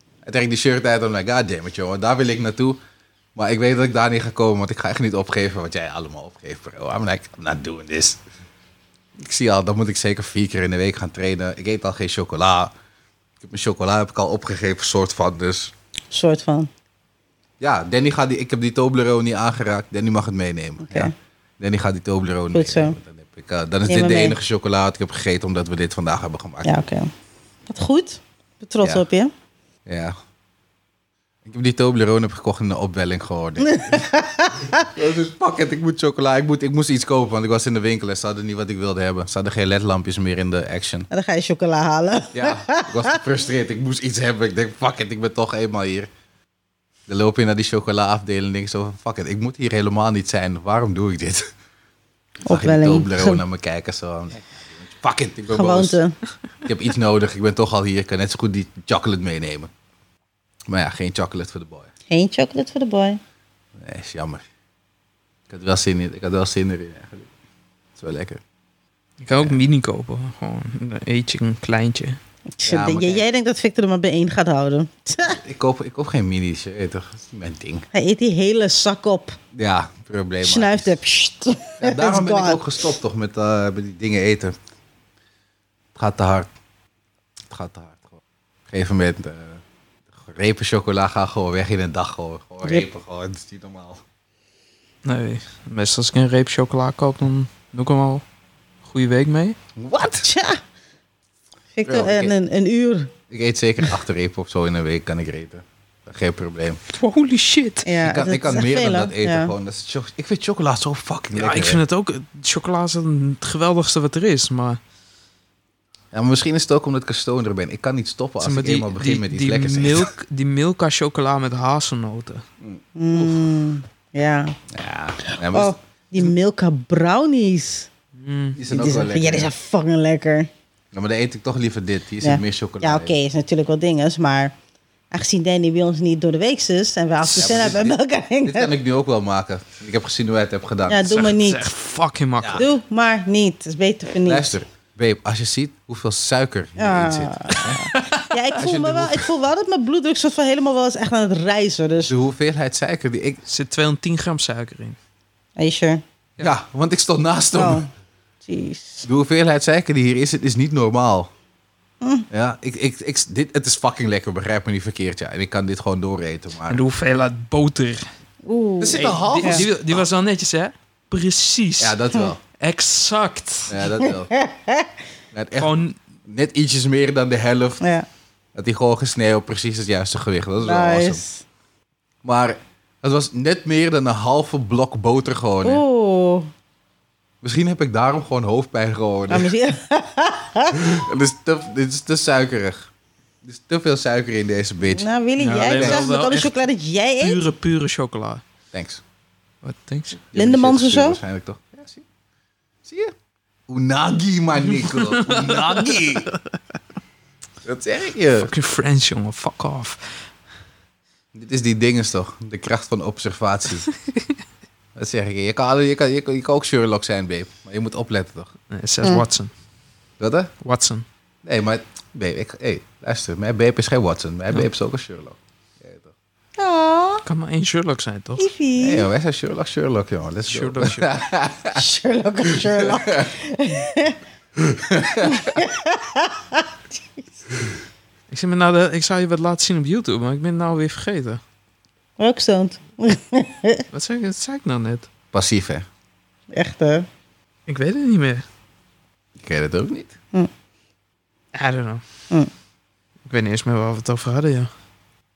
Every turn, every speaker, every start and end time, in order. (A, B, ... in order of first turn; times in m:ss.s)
0:00.2-0:02.8 A
0:03.4-0:08.2 A
0:09.2-0:12.7 A
0:13.4-0:15.7 A
0:16.1-0:16.7 B
0:17.6-0:26.7 A
0:20.8-0:21.1 B
0:22.5-0:23.0 B
0:23.9-0:24.4 B
0:26.6-0:27.1 B
0:27.7-0:29.3 B
0:29.8-0:30.2 A
0:31.4-0:34.1 A
0:33.6-0:34.9 B
0:34.7-0:41.1 A
0:41.1-0:43.2 B
0:42.3-0:46.1 A
0:47.1-0:51.5 A
0:52.4-0:56.0 A
0:52.4-0:53.4 B
0:55.5-0:56.1 B
0:56.6-0:59.7 A
1:00.7-1:01.9 A
1:02.1-1:03.2 B
1:03.8-1:04.4 A
1:05.5-1:07.3 A
1:08.0-1:08.4 A
1:09.2-1:12.2 C
1:12.6-1:15.4 B
1:12.6-1:13.2 A
1:15.2-1:17.8 A
1:17.9-1:19.4 B
1:19.5-1:21.0 A
1:20.4-1:22.8 B
1:21.8-1:24.6 A
1:25.9-1:26.5 A
1:27.5-1:34.0 A
1:35.0-1:38.2 C
1:38.8-1:39.6 C
1:39.8-1:40.3 A
1:40.2-1:40.6 B
1:41.8-1:43.1 B
1:41.8-1:42.3 A
1:43.3-1:46.8 A
1:46.9-1:47.8 C
1:47.8-1:49.5 B
1:48.0-1:51.8 A
1:51.4-1:54.8 C
1:56.1-2:00.1 A
1:58.4-2:02.4 C
2:03.0-2:04.6 B
2:04.7-2:06.3 A
2:05.2-2:07.9 B
2:08.2-2:08.6 C
2:08.6-2:09.5 A
2:08.7-2:10.5 B
2:10.9-2:13.1 A
2:12.2-2:14.5 B
2:15.1-2:18.7 B
2:17.2-2:21.3 A
2:20.9-2:21.6 B
2:21.1-2:22.6 C
2:22.4-2:22.6 A
2:22.5-2:24.5 B
2:24.2-2:27.9 A
2:26.8-2:32.1 B
2:27.7-2:28.3 C
2:28.6-2:29.3 A
2:32.1-2:33.4 A
2:33.5-2:35.0 C
2:35.6-2:36.0 B
2:36.4-2:37.9 A
2:37.5-2:37.8 B
2:38.4-2:39.0 B
2:39.0-2:41.3 A
2:42.0-2:42.3 B
2:42.3-2:46.8 A
2:46.7-2:48.1 C
2:48.4-2:49.6 B
2:48.8-2:50.0 A
2:48.9-2:52.0 C
2:51.8-2:52.4 A
2:52.6-2:53.8 C
2:53.7-2:54.3 A
2:54.0-2:54.9 B
2:55.3-2:57.8 A
2:55.6-2:56.0 C
2:57.8-2:58.1 B
2:58.5-3:01.2 A
3:00.6-3:01.4 B
3:02.2-3:05.8 A
3:05.6-3:06.5 B
3:07.4-3:09.5 A
3:09.3-3:10.8 B
3:10.7-3:12.9 A
3:13.4-3:15.0 A
3:14.9-3:17.4 B
3:15.4-3:16.6 C
3:15.7-3:16.1 A
3:17.2-3:18.4 C
3:18.7-3:19.0 A
3:19.6-3:20.2 C
3:20.3-3:22.0 A
3:20.3-3:21.2 B
3:22.8-3:23.1 A
3:23.7-3:26.3 A
3:24.7-3:26.4 C
3:27.6-3:28.5 A
3:28.4-3:30.1 C
3:31.3-3:33.9 A
3:34.9-3:38.5 A
3:38.7-3:39.5 C
3:40.2-3:40.5 A
3:40.6-3:41.0 C
3:41.4-3:46.1 A
3:46.6-3:47.2 B
3:47.2-3:48.5 C
3:48.4-3:49.1 B
3:48.8-3:51.8 A
3:50.5-3:51.1 C
3:51.7-3:54.2 B
3:52.4-3:53.3 A
3:54.6-3:55.6 A
3:55.2-3:57.3 B
3:58.3-4:01.4 C
4:02.2-4:03.8 B
4:03.9-4:05.1 C
4:05.3-4:05.9 A
4:06.5-4:07.1 B
4:07.7-4:08.4 C
4:09.4-4:10.1 A
4:11.5-4:12.0 C
4:13.2-4:14.7 C